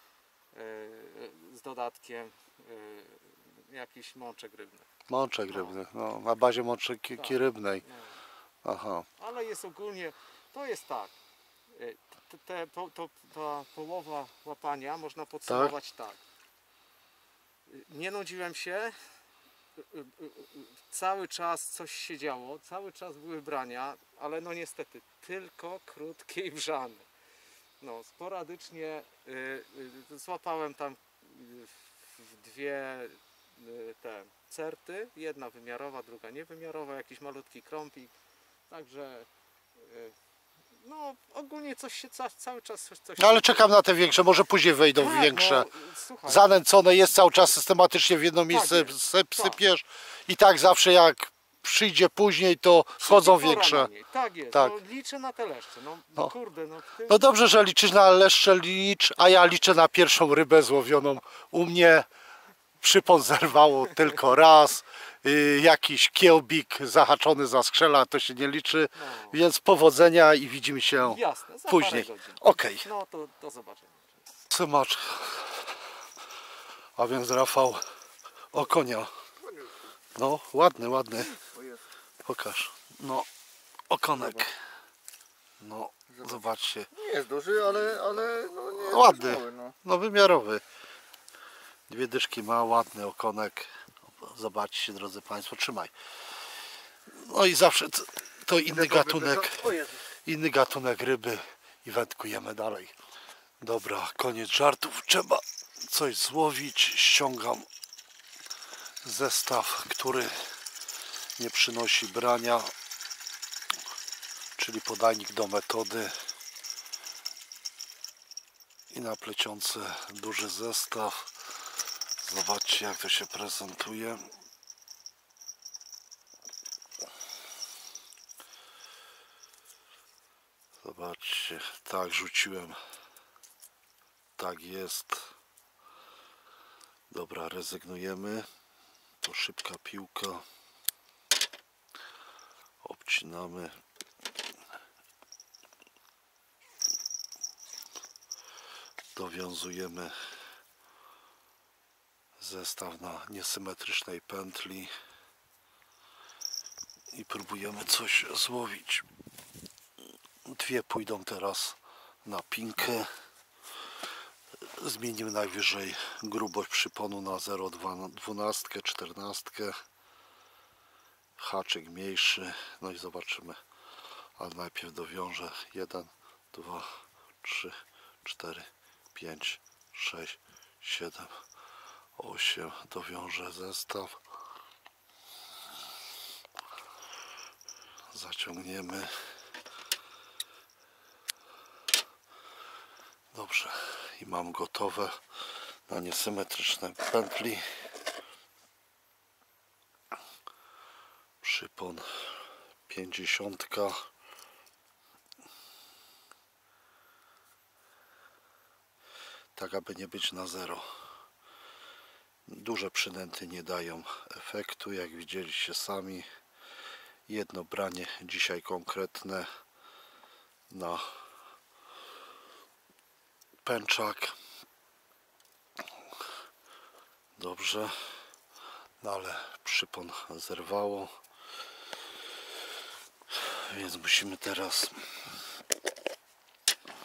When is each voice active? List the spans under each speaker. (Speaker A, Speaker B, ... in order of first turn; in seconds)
Speaker A: 0.5-4.8, 5.5-5.8, 7.2-8.2, 9.2-11.1, 11.7-16.2, 17.7-19.0, 19.8-27.1, 27.8-38.1, 38.7-40.1, 40.8-43.7, 45.0-46.5, 48.5-49.6, 53.0-57.3, 69.0-69.4, 71.0-74.2
Speaker B: 5.1-7.8, 8.6-9.1, 15.5-15.7, 43.2-45.7, 46.2-53.9, 57.1-62.1, 62.8-72.9, 74.5-75.6, 77.0-77.8, 78.5-79.1, 80.2-81.4, 82.2-83.3, 83.9-84.5, 85.6-86.9, 88.8-90.6, 91.9-95.9, 97.1-99.7, 100.2-102.9, 103.6-107.7, 109.0-110.5, 111.4-112.7, 114.6-116.1, 118.9-121.3, 122.2-124.3, 130.8-132.8, 134.4-135.3, 137.1-138.5, 139.2-140.4, 142.8-143.8, 149.1-150.1, 152.4-154.9, 157.1-159.1, 160.4-163.1, 164.6-169.8, 171.4-173.6, 174.4-181.4, 182.2-184.2, 188.1-189.1, 193.3-195.2, 195.9-197.7, 201.4-202.3, 202.9-204.0, 209.5-210.9, 212.5-216.3, 217.3-219.5, 220.7-221.1, 223.6-224.3, 227.4-228.1, 229.0-231.1, 233.3-235.1
Speaker C: 81.5-81.8, 86.1-86.4, 86.9-89.8